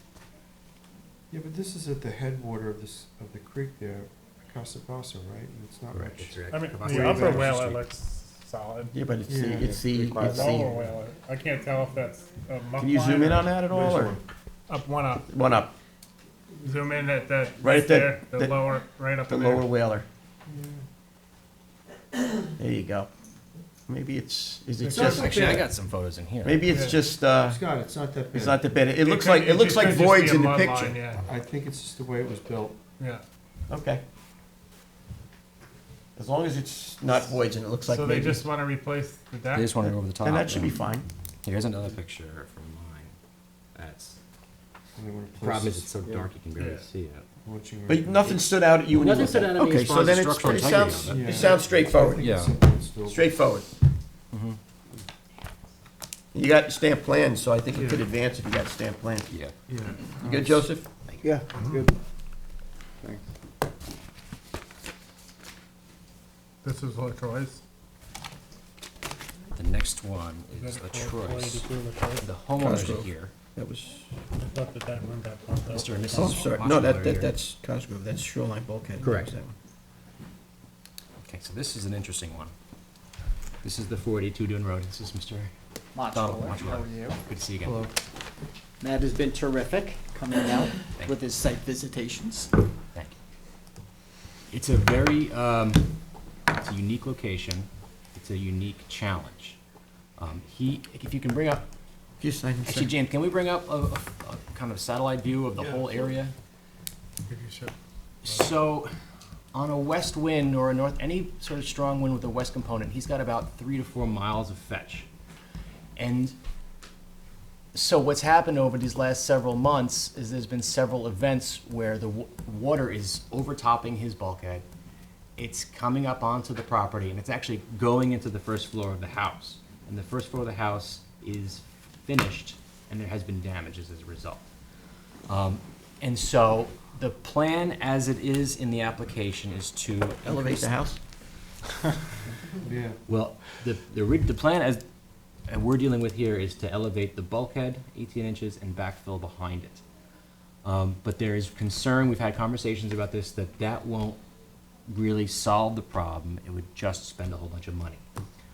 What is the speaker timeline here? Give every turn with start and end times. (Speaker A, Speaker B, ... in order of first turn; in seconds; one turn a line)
Speaker A: 1.3-7.4
Speaker B: 5.9-7.8
Speaker C: 6.5-8.9
Speaker D: 6.9-7.3
Speaker D: 8.9-10.7
Speaker A: 9.3-9.8
Speaker B: 9.9-10.7
Speaker C: 10.2-13.6
Speaker D: 12.8-14.2
Speaker C: 14.7-15.2
Speaker D: 15.3-15.7
Speaker C: 16.6-19.6
Speaker D: 17.6-18.6
Speaker D: 19.3-20.1
Speaker A: 20.5-20.8
Speaker D: 22.6-23.1
Speaker D: 23.9-25.7
Speaker C: 24.8-25.3
Speaker B: 24.9-26.6
Speaker A: 25.0-25.6
Speaker D: 26.4-27.6
Speaker C: 26.7-27.0
Speaker A: 27.4-28.6
Speaker D: 28.3-31.0
Speaker C: 29.0-31.2
Speaker A: 31.2-32.8
Speaker D: 33.7-34.0
Speaker D: 36.1-38.4
Speaker C: 37.9-39.8
Speaker B: 39.5-40.7
Speaker D: 39.8-41.1
Speaker B: 41.4-43.1
Speaker B: 43.7-44.2
Speaker A: 44.9-46.3
Speaker B: 45.4-47.2
Speaker C: 46.6-46.8
Speaker A: 47.4-48.4
Speaker D: 47.9-52.2
Speaker B: 48.9-51.2
Speaker A: 51.0-53.2
Speaker B: 52.2-52.5
Speaker D: 53.0-53.7
Speaker B: 54.3-54.6
Speaker D: 56.3-59.3
Speaker A: 57.7-58.0
Speaker B: 59.3-60.0
Speaker A: 59.7-60.6
Speaker D: 60.2-60.9
Speaker B: 61.0-61.3
Speaker E: 61.2-61.9
Speaker C: 61.5-61.8
Speaker C: 66.6-67.6
Speaker B: 69.5-71.7
Speaker C: 70.5-72.2
Speaker B: 72.2-73.3
Speaker D: 72.6-74.1
Speaker C: 74.4-76.5
Speaker B: 75.7-77.4
Speaker D: 76.1-79.5
Speaker B: 79.0-79.3
Speaker B: 81.2-82.5
Speaker B: 83.6-85.5
Speaker E: 86.0-87.2
Speaker B: 86.1-87.9
Speaker A: 87.6-87.9
Speaker E: 88.8-92.5
Speaker B: 90.9-91.2
Speaker B: 94.5-95.9
Speaker B: 96.5-99.6
Speaker B: 100.2-101.6
Speaker D: 102.2-102.9
Speaker B: 102.6-106.3
Speaker C: 107.3-107.7
Speaker B: 108.2-108.9
Speaker B: 109.5-115.1
Speaker B: 116.0-116.3
Speaker B: 117.7-124.6
Speaker B: 125.4-134.4
Speaker B: 135.3-140.7
Speaker D: 140.2-141.0
Speaker A: 142.6-143.0
Speaker B: 143.1-144.8
Speaker B: 145.5-149.8
Speaker B: 150.6-154.2
Speaker B: 154.9-158.0